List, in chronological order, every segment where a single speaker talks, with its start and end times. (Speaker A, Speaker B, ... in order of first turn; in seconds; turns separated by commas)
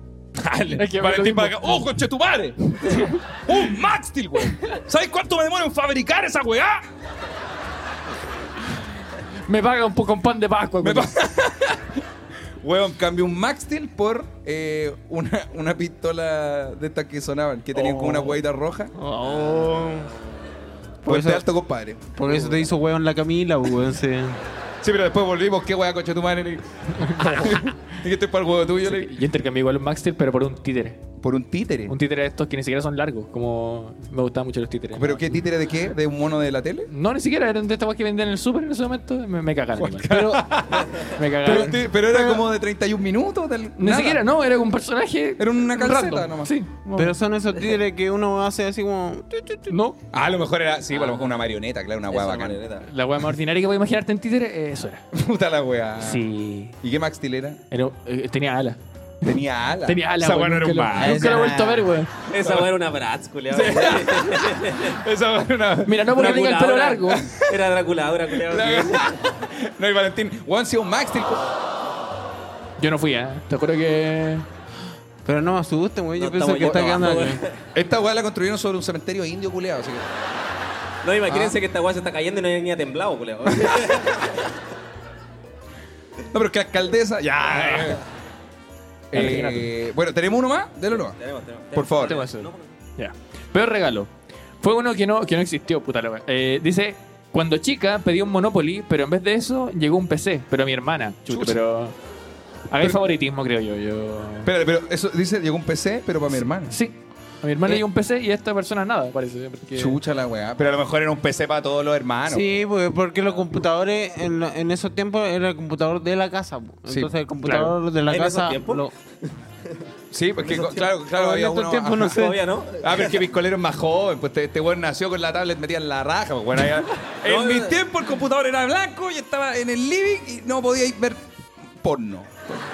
Speaker A: 0.3-6.8, Speaker B: 0.7-1.7, Speaker B: 9.5-11.1, Speaker A: 10.8-12.0, Speaker A: 12.6-18.9, Speaker C: 17.8-18.3, Speaker C: 18.9-20.1, Speaker D: 19.2-20.4, Speaker A: 21.1-22.1, Speaker C: 21.1-21.4, Speaker C: 22.1-24.4, Speaker A: 24.8-29.2, Speaker B: 27.0-27.7, Speaker B: 28.8-31.0, Speaker A: 31.2-31.9, Speaker B: 31.9-35.3, Speaker A: 34.9-36.9, Speaker B: 36.9-40.3, Speaker A: 39.8-44.2, Speaker C: 40.1-40.4, Speaker B: 41.1-41.8, Speaker C: 41.5-41.7, Speaker B: 43.8-47.1, Speaker A: 45.4-46.6, Speaker C: 46.9-49.8, Speaker B: 49.7-50.0, Speaker A: 50.1-52.6, Speaker D: 50.9-51.5, Speaker D: 52.1-52.9, Speaker B: 52.9-55.0, Speaker A: 55.1-56.2, Speaker B: 56.0-56.7, Speaker A: 56.8-57.6, Speaker B: 57.7-59.4, Speaker A: 59.2-61.4, Speaker B: 59.9-62.1, Speaker C: 61.0-61.9, Speaker D: 62.3-65.0, Speaker A: 62.4-62.7, Speaker A: 63.5-66.4, Speaker B: 65.9-67.2, Speaker D: 66.1-69.2, Speaker A: 67.1-67.6, Speaker A: 68.4-71.5, Speaker B: 72.8-74.5, Speaker C: 75.2-77.4, Speaker D: 76.2-77.6, Speaker A: 76.7-76.9, Speaker A: 77.7-80.0, Speaker D: 81.0-84.4, Speaker A: 81.3-81.5, Speaker A: 86.3-88.0, Speaker B: 87.5-88.0, Speaker A: 89.1-91.2, Speaker B: 89.1-89.7, Speaker D: 91.0-92.7, Speaker A: 91.7-92.2, Speaker B: 92.0-102.0, Speaker A: 101.3-101.6, Speaker B: 102.7-104.5, Speaker A: 104.4-106.8, Speaker B: 106.7-110.0, Speaker A: 109.7-112.5, Speaker C: 112.3-118.9, Speaker A: 116.9-117.1, Speaker B: 117.4-117.8, Speaker D: 118.1-118.9, Speaker A: 120.1-132.3, Speaker D: 120.4-120.9, Speaker C: 121.1-122.4, Speaker D: 122.0-123.2, Speaker D: 127.2-127.8